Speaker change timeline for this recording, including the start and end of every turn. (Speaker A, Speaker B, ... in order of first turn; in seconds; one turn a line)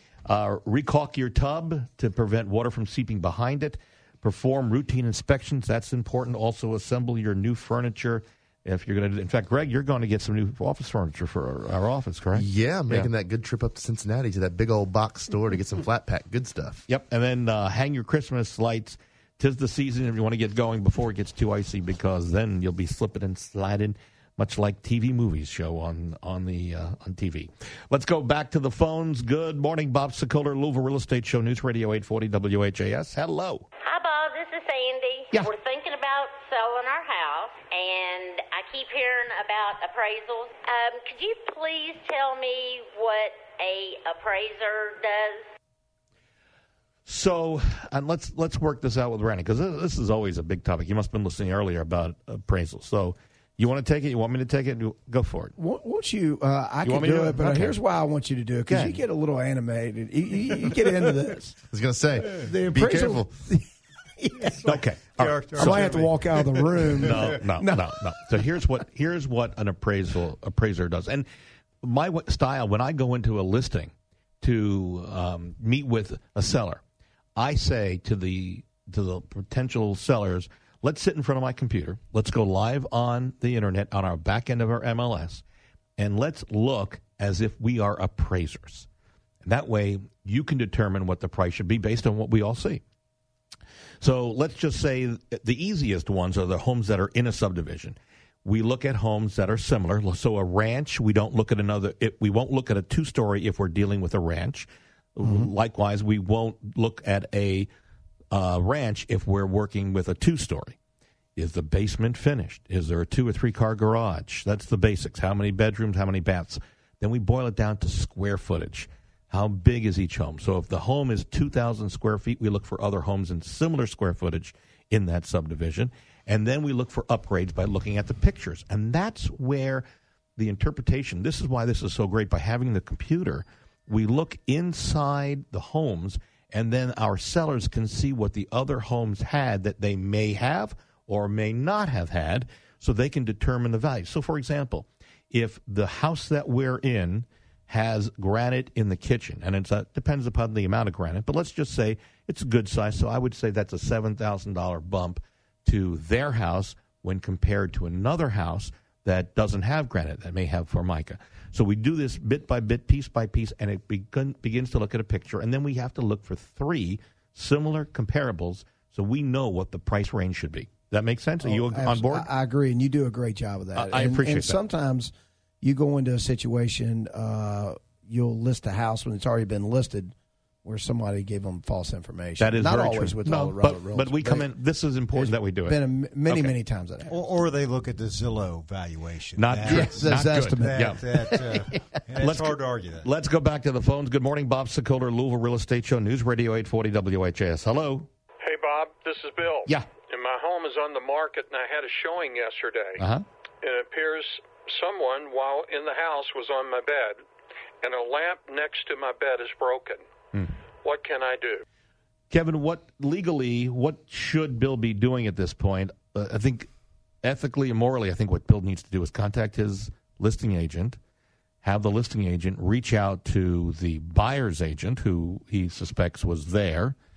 Speaker A: 0.2-13.1
Speaker B: 12.4-16.8
Speaker A: 16.9-33.6
Speaker C: 33.8-45.5
Speaker A: 47.1-55.5
Speaker D: 55.6-61.6
Speaker A: 56.8-57.8
Speaker A: 58.7-59.0
Speaker B: 61.7-63.3
Speaker D: 62.2-64.6
Speaker E: 64.4-67.4
Speaker A: 64.6-66.0
Speaker D: 65.5-68.3
Speaker A: 67.0-71.3
Speaker A: 71.8-76.8
Speaker A: 77.4-85.4
Speaker A: 86.0-88.9
Speaker A: 89.4-92.8
Speaker A: 94.0-107.7
Speaker A: 108.3-110.8
Speaker A: 111.4-129.8
Speaker A: 130.4-172.3
Speaker D: 171.4-175.1
Speaker A: 173.8-174.6
Speaker D: 175.6-184.5
Speaker A: 182.4-186.5
Speaker D: 185.1-187.2
Speaker E: 187.1-193.1
Speaker A: 189.4-198.1
Speaker D: 189.7-191.0
Speaker F: 198.4-203.0
Speaker A: 203.0-203.2
Speaker F: 203.6-207.2
Speaker F: 207.8-210.0
Speaker F: 210.8-211.6
Speaker A: 212.3-216.7
Speaker A: 217.2-221.0
Speaker A: 221.6-226.9